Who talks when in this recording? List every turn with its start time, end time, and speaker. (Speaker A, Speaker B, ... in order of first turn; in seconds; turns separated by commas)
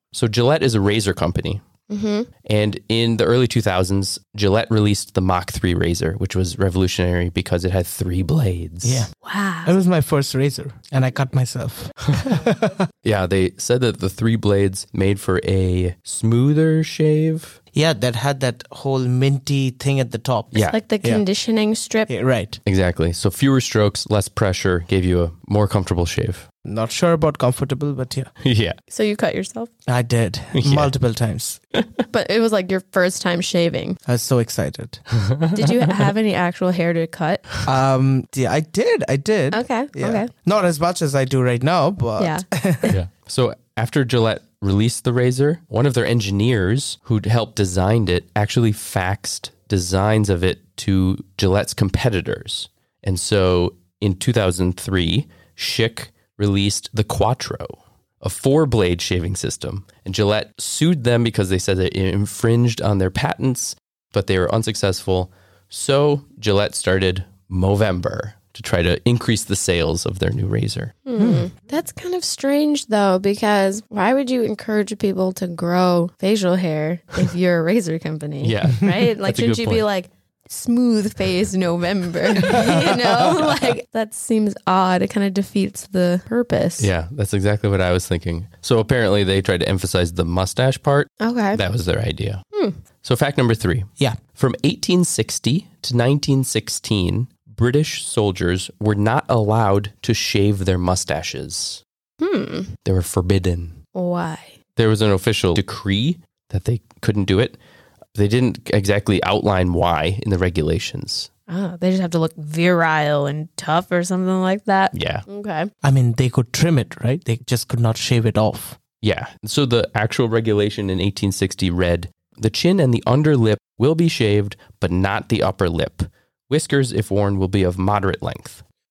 Speaker A: 0.1-1.6, Speaker B: 1.9-2.3, Speaker A: 2.5-9.1, Speaker C: 8.8-9.1, Speaker B: 9.2-9.7, Speaker C: 9.6-12.8, Speaker A: 13.0-17.6, Speaker C: 17.7-21.2, Speaker A: 20.5-20.8, Speaker B: 20.6-22.1, Speaker C: 22.1-22.6, Speaker A: 22.7-26.4, Speaker C: 26.6-28.3, Speaker A: 28.4-28.8, Speaker B: 28.9-29.7, Speaker C: 29.9-31.6, Speaker A: 30.5-30.9, Speaker A: 31.8-32.0, Speaker B: 32.1-34.0, Speaker C: 34.1-35.0, Speaker A: 35.2-36.1, Speaker B: 35.5-37.5, Speaker C: 37.7-42.9, Speaker B: 39.5-40.3, Speaker B: 42.2-43.0, Speaker A: 42.9-71.0, Speaker B: 71.1-86.9, Speaker C: 71.2-71.5, Speaker A: 78.4-79.8, Speaker C: 82.5-82.9, Speaker A: 86.8-92.4, Speaker B: 91.2-91.6, Speaker B: 92.5-92.8, Speaker A: 93.0-101.8, Speaker B: 102.2-102.7, Speaker A: 102.8-103.8, Speaker B: 104.0-104.5, Speaker A: 104.8-107.6, Speaker A: 108.2-111.3, Speaker B: 111.5-115.7, Speaker A: 114.9-115.2, Speaker C: 115.8-118.8, Speaker A: 119.0-128.6